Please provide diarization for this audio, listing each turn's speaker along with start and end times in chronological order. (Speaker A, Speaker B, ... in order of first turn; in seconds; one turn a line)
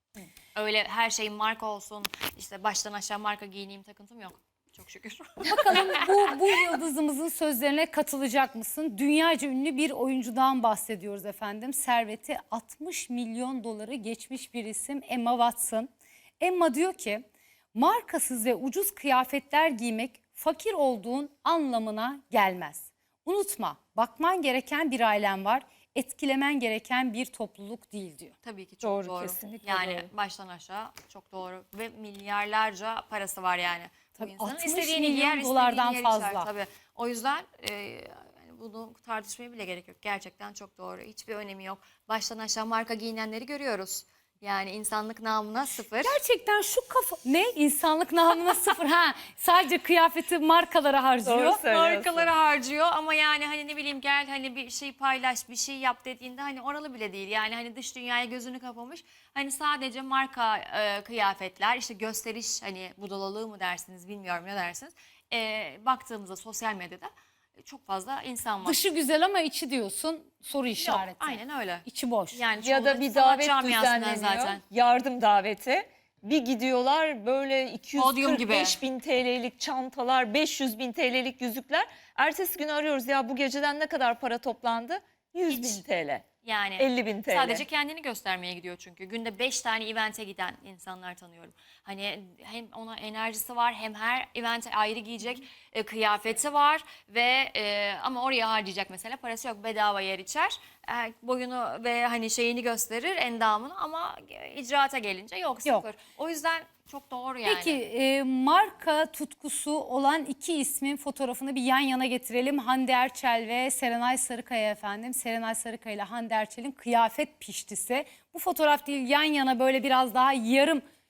Speaker A: 0.5-6.3
Speaker B: 5.4-28.3
Speaker A: 28.4-46.2
Speaker C: 28.8-30.1
Speaker B: 34.2-36.5
Speaker B: 46.0-51.6
Speaker C: 51.2-52.3
Speaker A: 51.6-68.8
Speaker B: 68.6-72.4
Speaker A: 70.8-74.6
Speaker C: 72.6-86.2
Speaker A: 78.0-78.8
Speaker A: 85.5-85.8
Speaker A: 86.4-107.8
Speaker C: 86.8-87.6
Speaker B: 107.4-120.8